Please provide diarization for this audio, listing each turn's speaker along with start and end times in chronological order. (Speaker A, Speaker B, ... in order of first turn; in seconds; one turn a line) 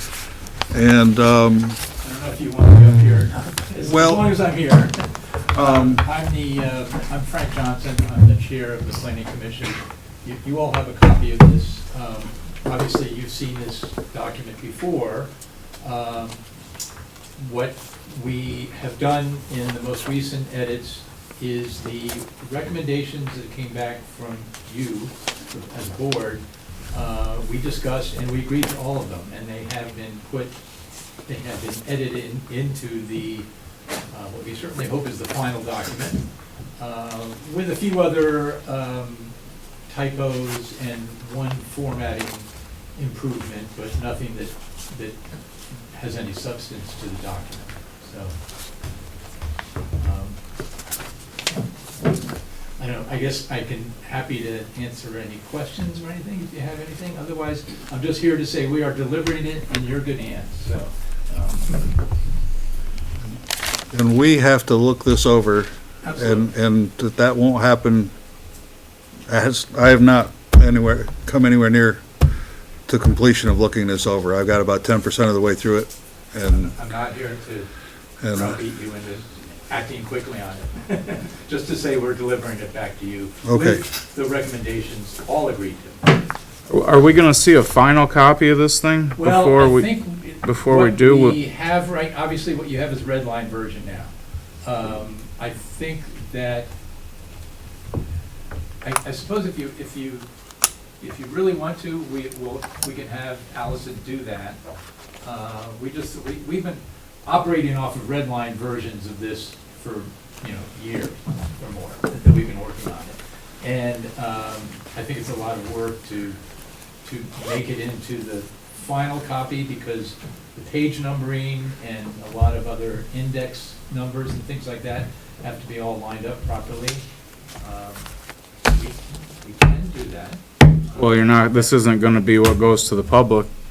Speaker A: 0.7-1.8
Speaker B: 2.0-15.3
Speaker A: 3.8-4.3
Speaker A: 5.5-6.0
Speaker B: 15.8-16.4
Speaker B: 17.4-30.5
Speaker B: 31.2-33.5
Speaker B: 34.1-36.2
Speaker B: 36.8-39.3
Speaker B: 39.9-45.2
Speaker B: 45.7-48.3
Speaker B: 50.0-50.4
Speaker B: 52.8-61.9
Speaker A: 63.9-68.1
Speaker B: 66.0-66.5
Speaker A: 69.3-72.0
Speaker A: 72.9-76.7
Speaker B: 76.4-77.7
Speaker A: 78.2-78.6
Speaker B: 78.3-86.0
Speaker A: 83.4-83.8
Speaker C: 86.7-91.4
Speaker B: 89.2-94.1
Speaker B: 94.6-96.7
Speaker B: 98.8-100.3
Speaker B: 101.0-104.6
Speaker B: 105.2-116.4
Speaker B: 117.0-127.0
Speaker B: 127.6-128.1
Speaker B: 128.6-130.4
Speaker C: 130.9-133.5